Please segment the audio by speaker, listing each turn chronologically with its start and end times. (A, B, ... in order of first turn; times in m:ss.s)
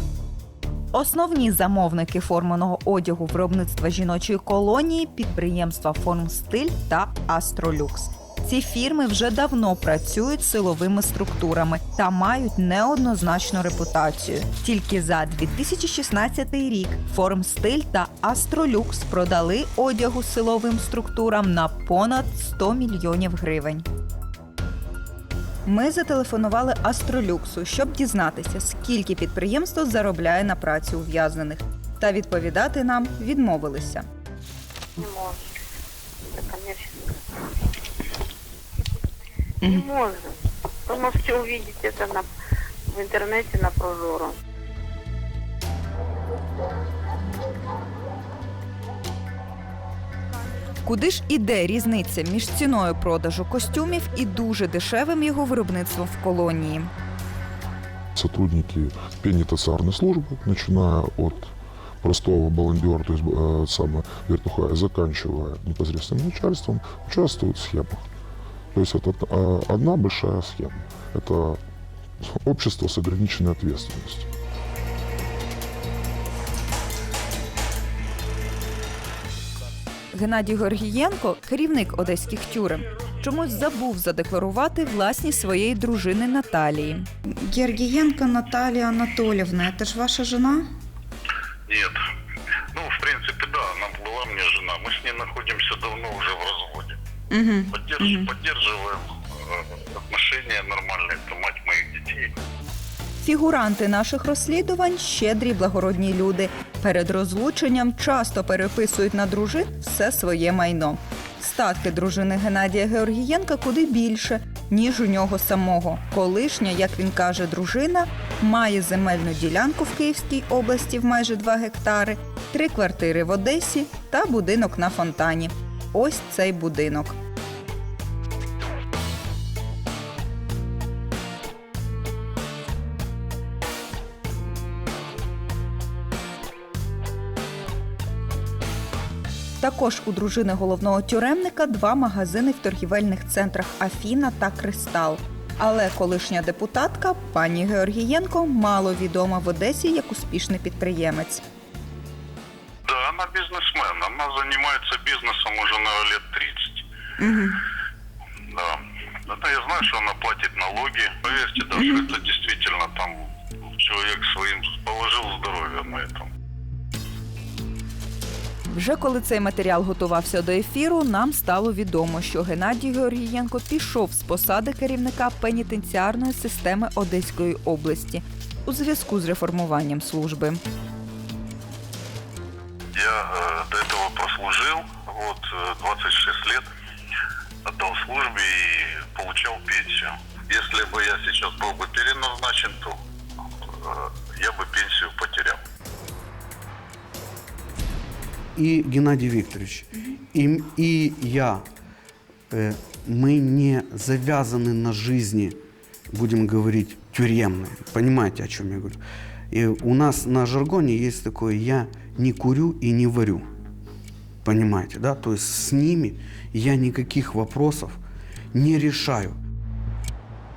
0:00.9-0:23.8 A
0:25.6-0:34.0 A
0:35.0-0:35.4 B
0:36.3-0:36.9 B
0:39.7-0:40.3 B
0:40.9-0:42.2 B
0:42.9-0:44.3 B
0:50.8-0:56.9 A
0:58.2-1:08.0 C
1:08.7-1:11.6 C
1:12.4-1:14.3 C
1:20.1-1:30.7 A
1:31.7-1:32.0 D
1:32.7-1:37.0 D
1:37.3-1:38.3 A
1:37.7-1:42.3 D
1:43.2-2:07.2 A
2:19.6-2:31.4 A
2:32.9-2:36.8 D
2:37.2-2:37.6 A
2:38.5-2:46.3 D
2:48.7-3:00.6 A
3:02.9-3:06.6 D
3:07.6-3:13.0 D
3:13.6-3:15.6 D
3:18.6-3:21.6 E
3:22.5-3:25.6 E
3:26.1-3:29.0 E
3:29.5-3:33.5 E
3:34.4-3:38.0 E
3:38.5-3:39.4 E